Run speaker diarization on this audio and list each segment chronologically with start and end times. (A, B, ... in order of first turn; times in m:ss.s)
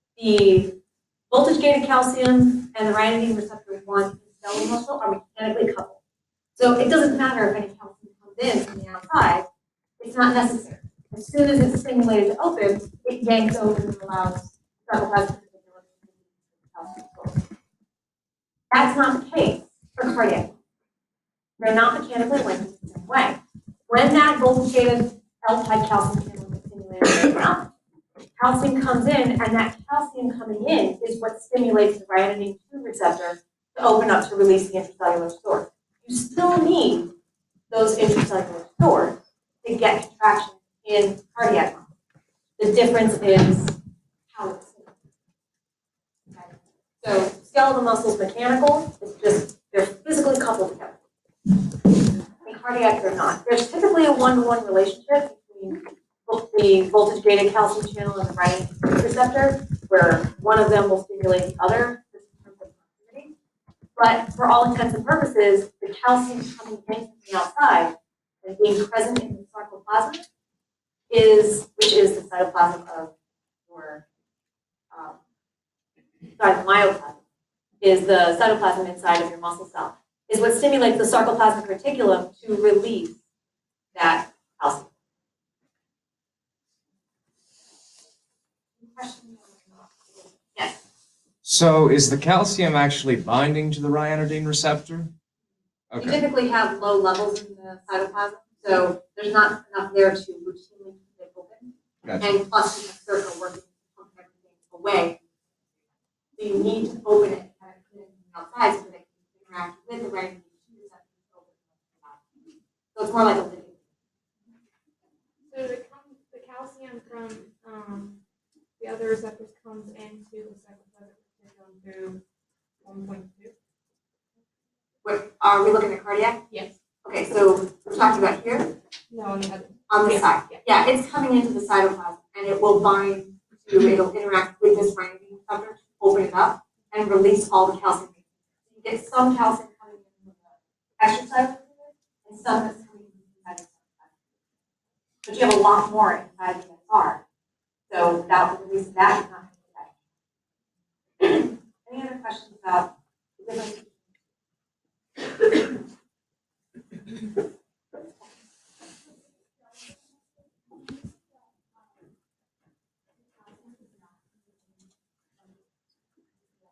0:00.2-0:00.8 A
0:01.3-0:06.0 A
0:06.6-0:09.5 A
0:10.0-0:17.4 A
0:18.7-0:20.5 A
0:21.6-0:27.7 A
0:28.4-0:37.1 A
0:37.7-0:41.9 A
0:42.6-0:43.8 A
0:44.3-0:45.0 A
0:46.3-0:51.0 A
0:52.4-1:03.3 A
1:04.0-1:10.2 A
1:11.1-1:13.1 A
1:13.7-1:14.0 A
1:14.9-1:15.2 A
1:16.4-1:17.2 A
1:17.8-1:23.2 A
1:24.0-1:24.9 A
1:28.8-1:30.8 A
1:31.4-1:35.1 B
1:35.9-1:36.2 B
1:36.0-1:41.7 A
1:42.2-1:45.2 A
1:46.4-1:52.2 A
1:53.0-1:53.8 A
1:55.5-1:58.2 C
1:58.8-2:02.2 C
2:02.8-2:03.5 C
2:05.0-2:06.4 A
2:07.0-2:08.8 A
2:09.1-2:10.6 C
2:09.9-2:24.1 A
2:25.2-2:27.2 A
2:27.9-2:29.9 A
2:31.2-2:34.1 A